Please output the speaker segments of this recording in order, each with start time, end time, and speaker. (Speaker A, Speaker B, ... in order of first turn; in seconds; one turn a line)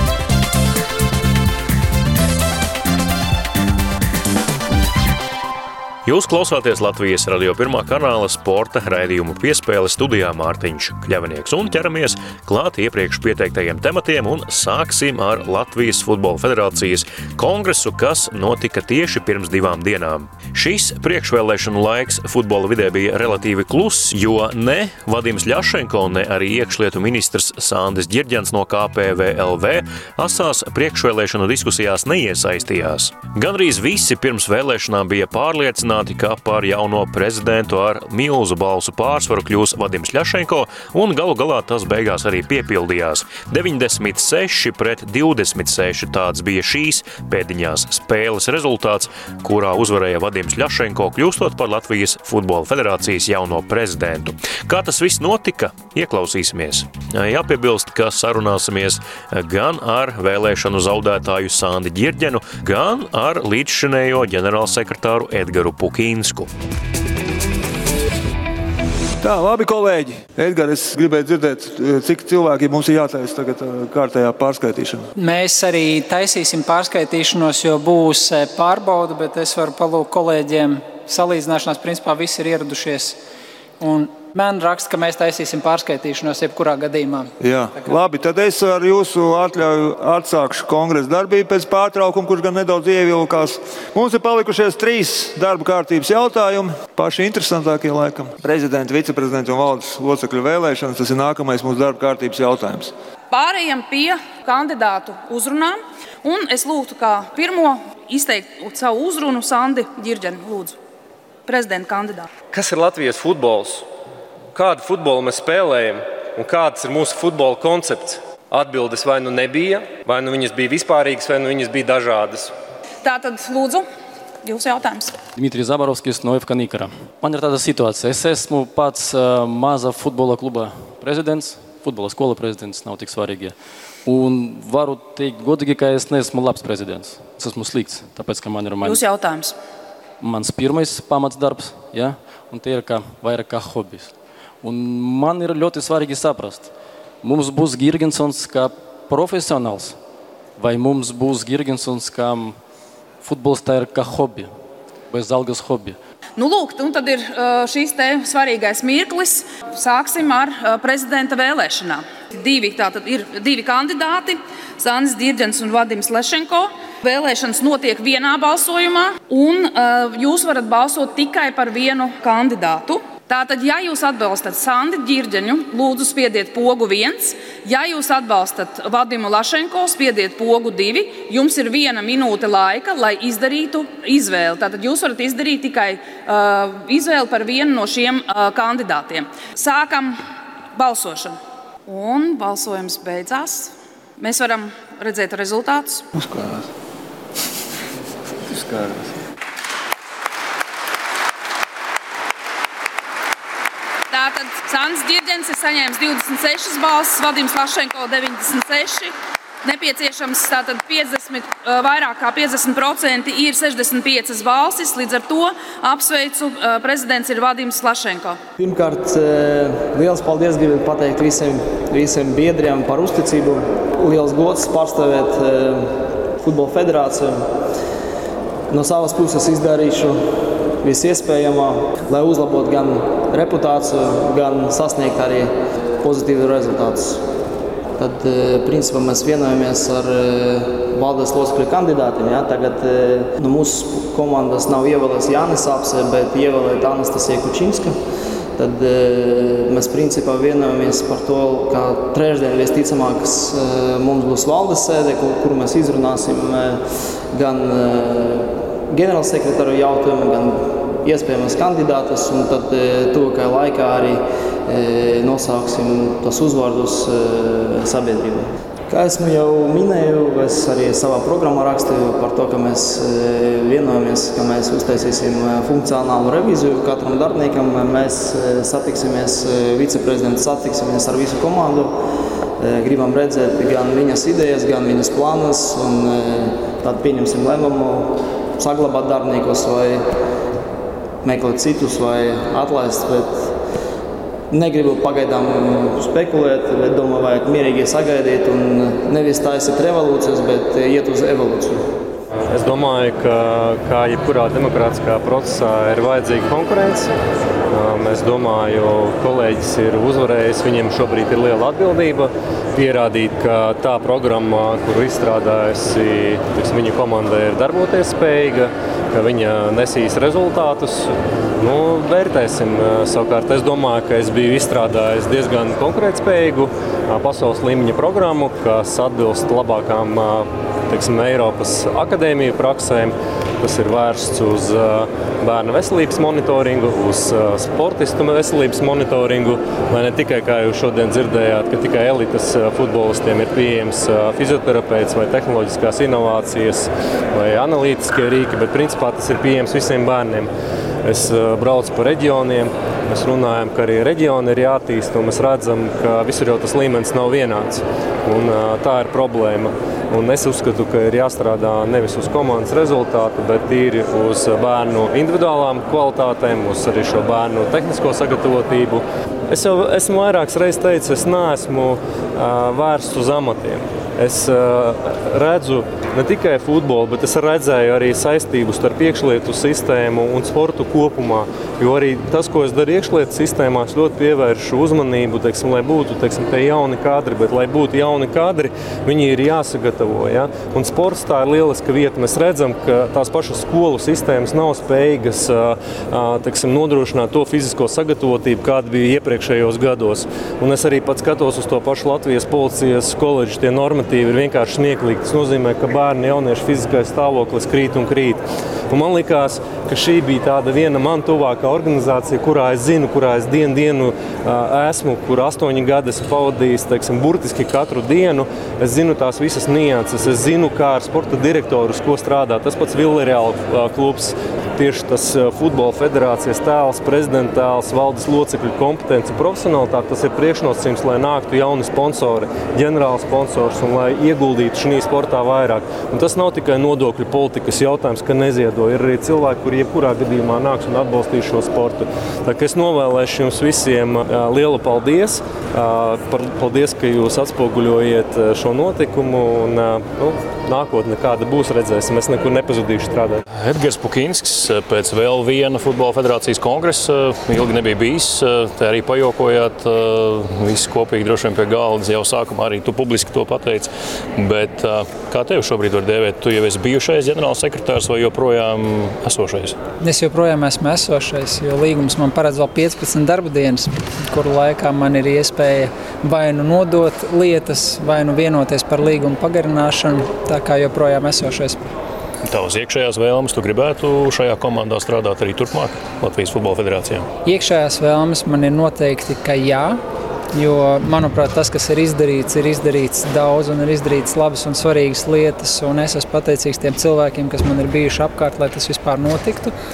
Speaker A: 6.0-66.5
Speaker B: 69.2-75.1
Speaker C: 75.1-83.2
Speaker C: 83.8-87.9
Speaker B: 87.4-102.9
Speaker D: 103.3-110.8
Speaker D: 111.5-112.2
Speaker E: 112.5-113.8
Speaker E: 114.5-122.5
Speaker D: 123.0-123.8
Speaker D: 124.4-125.2
Speaker F: 125.3-139.0
Speaker D: 138.8-139.6
Speaker F: 140.2-150.0
Speaker F: 150.6-152.6
Speaker F: 153.2-154.5
Speaker F: 155.1-156.0
Speaker D: 156.4-190.2
Speaker D: 190.7-196.1
Speaker B: 196.2-196.6
Speaker B: 198.5-199.1
Speaker D: 204.1-218.4
Speaker G: 218.6-227.5
Speaker G: 228.7-237.2
Speaker G: 238.0-248.0
Speaker G: 248.6-282.0
Speaker G: 282.6-290.1
Speaker G: 291.2-293.6
Speaker G: 294.5-301.9
Speaker E: 302.5-307.1
Speaker E: 307.7-350.5
Speaker E: 351.0-453.4
Speaker A: 453.5-469.8
Speaker C: 470.0-481.8
Speaker A: 482.4-487.3
Speaker C: 487.4-490.0
Speaker C: 490.5-499.7